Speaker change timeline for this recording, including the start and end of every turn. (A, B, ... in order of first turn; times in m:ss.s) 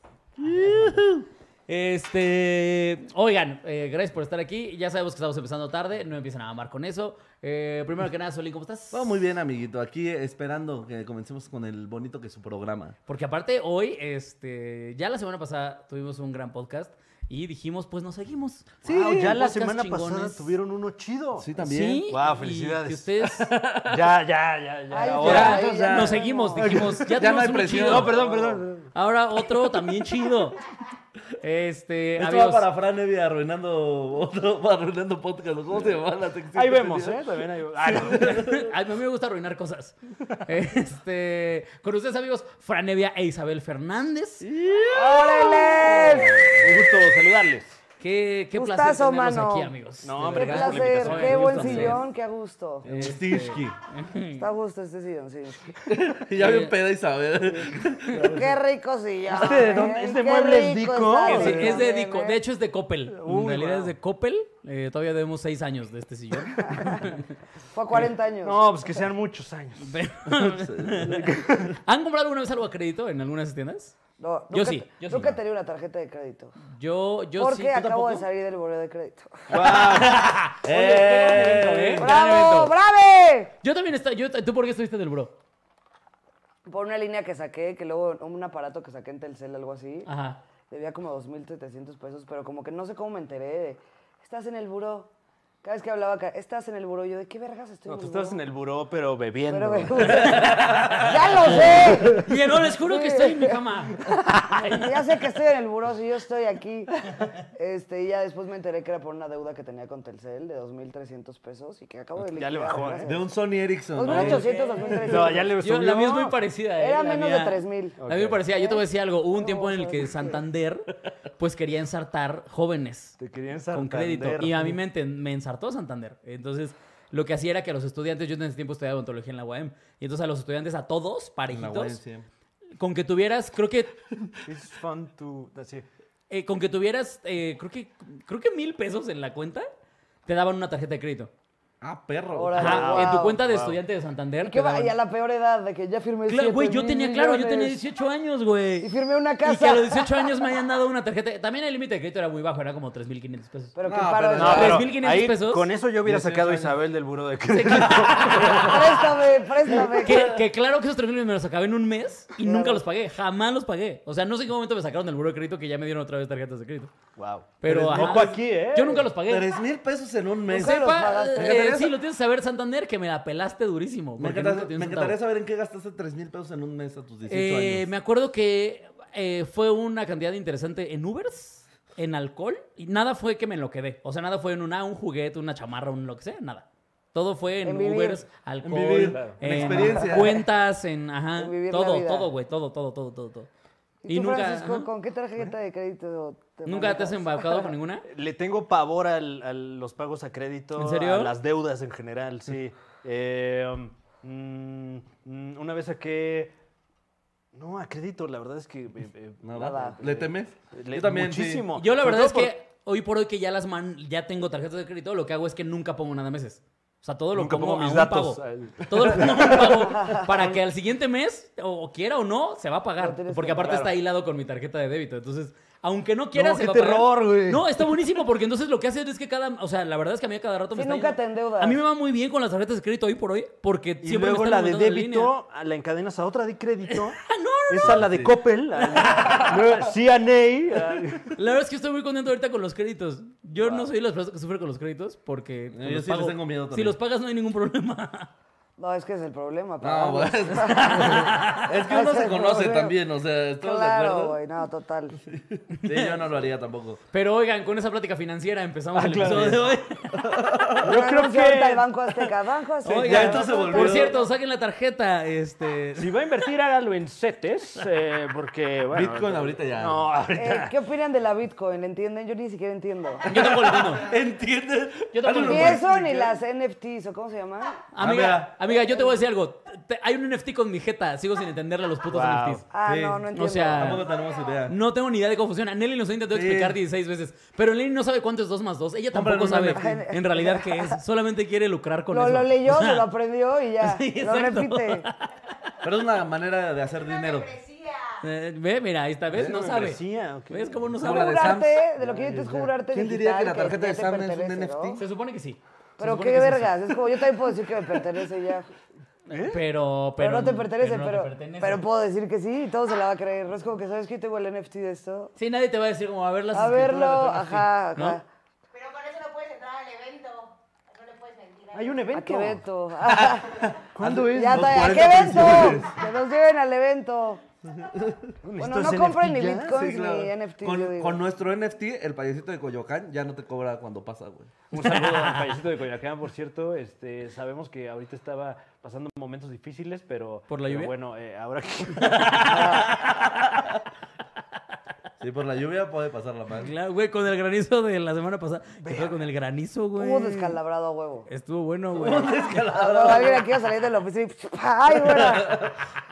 0:00.4-0:01.0 A
0:00.4-0:01.3 B
0:01.7-0:09.1 A
0:08.9-0:13.0 B
0:13.1-0:20.6 A
0:18.8-0:21.5 C
0:21.4-0:22.0 B
0:21.6-0:23.6 A
0:22.1-0:28.9 C
0:23.4-0:24.0 B
0:24.9-0:27.0 D
0:25.2-0:25.6 B
0:25.2-0:28.2 A
0:27.0-0:28.2 B
0:28.2-0:28.6 D
0:28.9-0:30.6 A
0:31.4-0:32.6 A
0:32.2-0:37.3 B
0:36.5-0:38.4 C
0:37.9-0:38.7 B
0:37.9-0:44.5 A
0:44.4-0:46.5 B
0:44.9-0:46.5 D
0:45.0-0:47.8 C
0:48.0-0:52.0 A
0:48.5-0:49.7 D
0:50.0-0:52.0 C
0:50.2-0:52.9 D
0:52.8-0:53.8 B
0:52.8-0:54.5 A
0:54.4-0:55.8 D
0:55.8-0:58.5 B
0:56.4-0:56.7 A
0:58.1-0:58.5 C
0:58.2-1:02.4 D
0:59.3-1:01.8 C
0:59.4-0:59.7 B
1:01.2-1:07.3 A
1:03.1-1:04.0 C
1:06.7-1:07.0 D
1:07.7-1:08.6 D
1:07.9-1:09.9 C
1:09.8-1:14.0 A
1:10.4-1:11.1 B
1:11.0-1:11.8 C
1:14.2-1:16.5 D
1:14.5-1:15.4 A
1:16.6-1:18.0 A
1:17.4-1:19.6 D
1:17.8-1:18.2 B
1:19.5-1:20.3 C
1:19.6-1:22.8 A
1:20.6-1:22.1 B
1:22.0-1:23.5 D
1:23.6-1:25.3 A
1:26.6-1:30.1 D
1:30.0-1:30.4 A
1:30.7-1:35.1 D
1:35.6-1:38.4 D
1:37.9-1:40.4 C
1:39.5-1:47.0 D
1:40.1-1:41.2 B
1:40.2-1:45.0 A
1:41.4-1:42.2 C
1:47.5-1:53.2 D
1:52.3-1:53.1 C
1:53.0-1:54.5 B
1:54.0-1:55.5 D
1:54.1-1:55.2 E
1:55.1-1:56.4 C
1:55.4-2:03.2 A
1:56.8-2:00.4 D
1:58.0-1:58.4 C
2:03.2-2:04.8 C
2:03.7-2:12.0 A
2:11.5-2:12.2 B
2:12.8-2:14.0 A
2:14.4-2:15.9 C
2:16.3-2:19.7 A
2:20.2-2:21.3 A
2:21.8-2:22.9 B
2:22.3-2:23.4 D
2:22.6-2:23.8 C
2:22.6-2:24.9 A
2:24.4-2:27.8 D
2:26.3-2:33.8 A
2:28.8-2:30.4 D
2:33.8-2:34.8 D
2:33.9-2:34.9 B
2:34.4-2:39.0 C
2:34.4-2:35.7 A
2:36.0-2:36.7 B
2:37.5-2:39.0 A
2:38.0-2:38.7 B
2:38.4-2:40.4 D
2:39.9-2:46.9 A
2:42.4-2:42.8 D
2:47.2-2:49.1 C
2:47.6-2:49.5 A
2:47.9-2:48.3 B
2:49.3-2:52.0 B
2:50.5-2:51.6 D
2:50.5-2:55.2 A
2:54.2-2:57.8 B
2:57.3-3:13.5 A
3:07.6-3:08.2 D
3:08.6-3:10.4 B
3:09.1-3:09.4 C
3:10.0-3:10.3 D
3:11.4-3:12.3 D
3:14.0-3:17.7 D
3:14.1-3:14.9 A
3:16.7-3:18.0 A
3:18.0-3:26.5 C
3:20.8-3:21.3 A
3:27.5-3:32.5 C
3:29.4-3:31.7 B
3:29.6-3:30.0 D
3:31.8-3:55.3 A
3:37.3-3:39.8 C
3:39.8-3:40.5 D
3:43.0-3:43.9 D
3:43.6-3:43.9 C
3:46.3-3:47.6 C
3:50.7-3:51.8 D
3:54.0-4:01.3 C
3:56.9-3:58.1 A
3:57.8-3:58.3 B
3:58.8-3:59.5 A
4:01.3-4:08.3 A
4:05.7-4:07.0 B
4:08.8-4:13.0 D
4:09.8-4:14.4 B
4:10.6-4:11.7 A
4:13.6-4:15.2 D
4:15.3-4:17.0 B
4:15.8-4:16.2 A
4:17.1-4:20.4 A
4:18.9-4:19.8 C
4:20.2-4:20.9 B
4:20.8-4:21.9 C
4:20.8-4:24.3 D
4:22.8-4:26.1 A
4:23.0-4:24.2 B
4:26.0-4:30.8 C
4:28.9-4:30.0 B
4:30.4-4:33.2 D
4:33.2-4:36.4 B
4:33.2-4:34.1 A
4:35.1-4:35.8 A
4:35.4-4:37.8 D
4:37.9-4:42.6 A
4:38.0-4:38.5 B
4:38.7-4:39.1 D
4:42.1-4:42.6 C
4:42.7-4:44.1 D
4:42.8-4:44.8 B
4:43.3-4:44.0 A
4:44.2-4:44.6 E
4:44.7-4:53.1 A
4:46.3-4:46.8 B
4:49.1-4:50.0 B
4:49.7-4:51.0 D
4:52.1-4:55.1 D
4:53.8-4:55.7 A
4:55.8-4:57.6 B
4:56.9-4:58.2 E
4:58.2-5:01.6 A
4:59.3-5:00.8 C
5:01.0-5:01.9 B
5:01.0-5:05.0 D
5:02.0-5:02.7 C
5:02.9-5:05.0 B
5:05.0-5:06.9 A
5:06.0-5:08.7 D
5:09.3-5:09.6 C
5:09.3-5:11.8 A
5:10.2-5:15.3 D
5:15.4-5:18.2 A
5:16.5-5:18.2 D
5:18.7-5:22.1 E
5:21.7-5:22.6 C
5:22.1-5:23.6 D
5:23.0-5:26.0 B
5:23.9-5:25.6 C
5:24.3-5:27.4 D
5:27.8-5:28.2 B
5:28.4-5:31.2 D
5:28.5-5:30.1 C
5:29.8-5:34.5 B
5:34.7-5:42.8 C
5:34.8-5:35.4 A
5:40.5-5:40.9 A
5:42.0-5:43.6 A
5:45.2-5:46.7 B
5:46.6-5:50.6 A
5:48.8-5:49.2 C
5:50.0-5:51.3 D
5:51.3-5:52.7 A
5:51.9-5:53.5 B
5:52.6-5:55.7 D
5:55.0-5:55.8 B